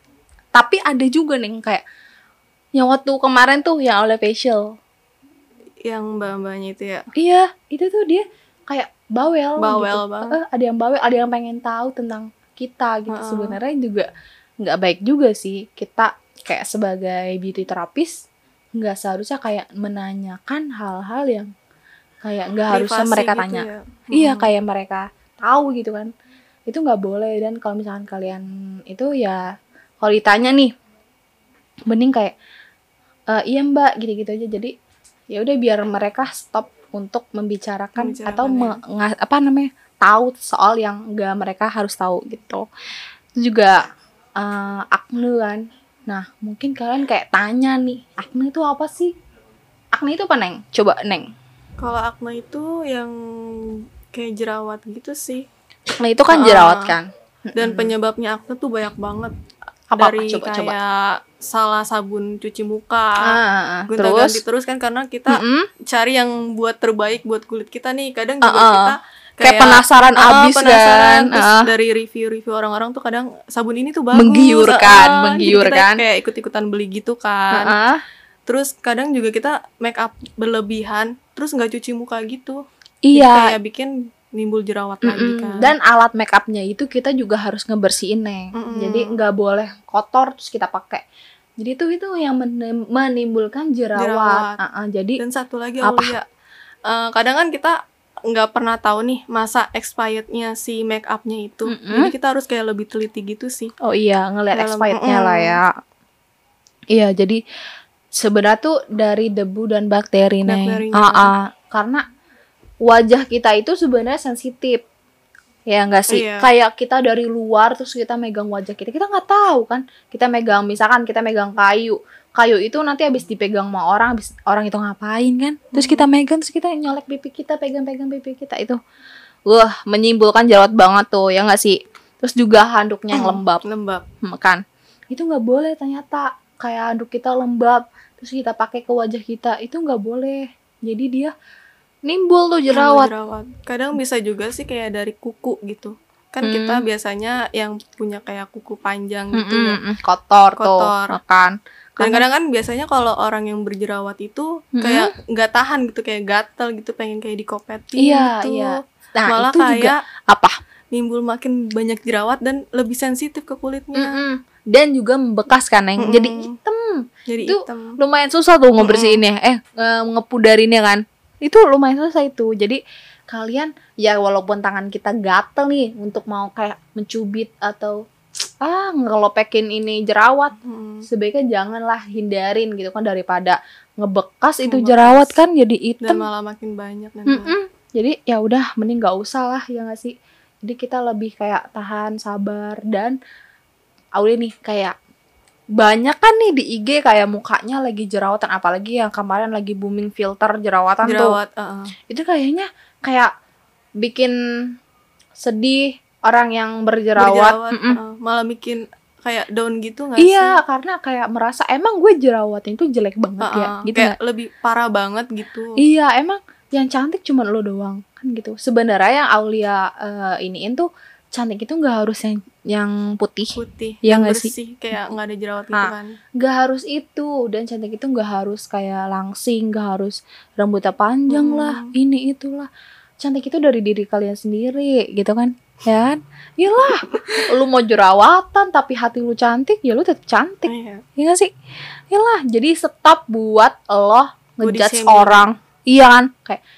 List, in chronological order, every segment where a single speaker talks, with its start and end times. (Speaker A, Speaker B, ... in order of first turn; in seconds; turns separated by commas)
Speaker A: 0.5-1.8, Speaker A: 2.8-4.8, Speaker B: 5.8-7.1, Speaker A: 7.1-14.1, Speaker B: 9.6-10.4, Speaker B: 13.1-13.6, Speaker A: 14.6-18.2, Speaker A: 18.8-21.5, Speaker A: 22.2-26.1, Speaker B: 22.7-24.5, Speaker A: 26.7-29.4, Speaker A: 30.0-30.7, Speaker A: 31.9-32.4, Speaker A: 33.3-34.7, Speaker A: 35.3-42.6, Speaker B: 38.0-38.8, Speaker A: 43.4-43.8, Speaker A: 44.4-49.1, Speaker A: 49.9-51.3, Speaker B: 51.8-55.5, Speaker A: 56.0-57.9, Speaker B: 56.3-57.0, Speaker B: 57.5-59.3, Speaker A: 59.9-60.8, Speaker B: 60.0-63.4, Speaker A: 63.2-64.4, Speaker B: 63.9-77.7, Speaker A: 65.3-65.7, Speaker A: 68.4-71.7, Speaker A: 74.1-76.0, Speaker A: 77.5-78.0, Speaker B: 78.5-82.6, Speaker A: 83.1-83.5, Speaker B: 83.1-85.7, Speaker A: 85.0-91.0, Speaker B: 88.5-89.2, Speaker A: 91.6-95.2, Speaker B: 94.0-94.6, Speaker B: 95.2-96.3, Speaker A: 95.8-96.1, Speaker B: 96.9-97.8, Speaker B: 98.3-103.7, Speaker A: 101.7-102.1, Speaker A: 103.8-105.7, Speaker B: 104.5-105.6, Speaker A: 106.9-107.4, Speaker A: 108.1-112.0, Speaker B: 110.5-111.3, Speaker A: 112.8-114.8, Speaker A: 115.7-128.8, Speaker B: 116.1-116.5, Speaker B: 125.7-126.0, Speaker A: 129.5-133.6, Speaker B: 133.1-134.0, Speaker A: 134.2-141.3, Speaker A: 142.1-143.1, Speaker B: 142.7-149.8, Speaker A: 146.4-146.8, Speaker A: 149.4-152.2, Speaker B: 150.6-151.2, Speaker B: 152.0-160.0, Speaker A: 154.8-155.1, Speaker A: 158.0-160.6, Speaker B: 160.9-164.2, Speaker A: 163.9-180.6, Speaker B: 166.0-166.6, Speaker B: 167.3-168.0, Speaker B: 168.8-169.2, Speaker B: 180.6-181.1, Speaker A: 181.1-186.2, Speaker B: 184.7-185.4, Speaker B: 186.0-187.5, Speaker A: 187.3-193.2, Speaker A: 194.2-195.0, Speaker A: 195.8-201.4, Speaker B: 201.0-201.9, Speaker A: 202.1-203.3, Speaker A: 204.0-204.3, Speaker A: 205.4-208.0, Speaker B: 207.2-210.6, Speaker A: 210.2-214.1, Speaker B: 213.4-215.8, Speaker A: 215.8-224.5, Speaker B: 223.6-226.1, Speaker A: 225.7-232.7, Speaker B: 231.3-231.9, Speaker A: 233.2-241.5, Speaker B: 240.7-241.0, Speaker A: 242.1-246.6, Speaker B: 244.6-245.5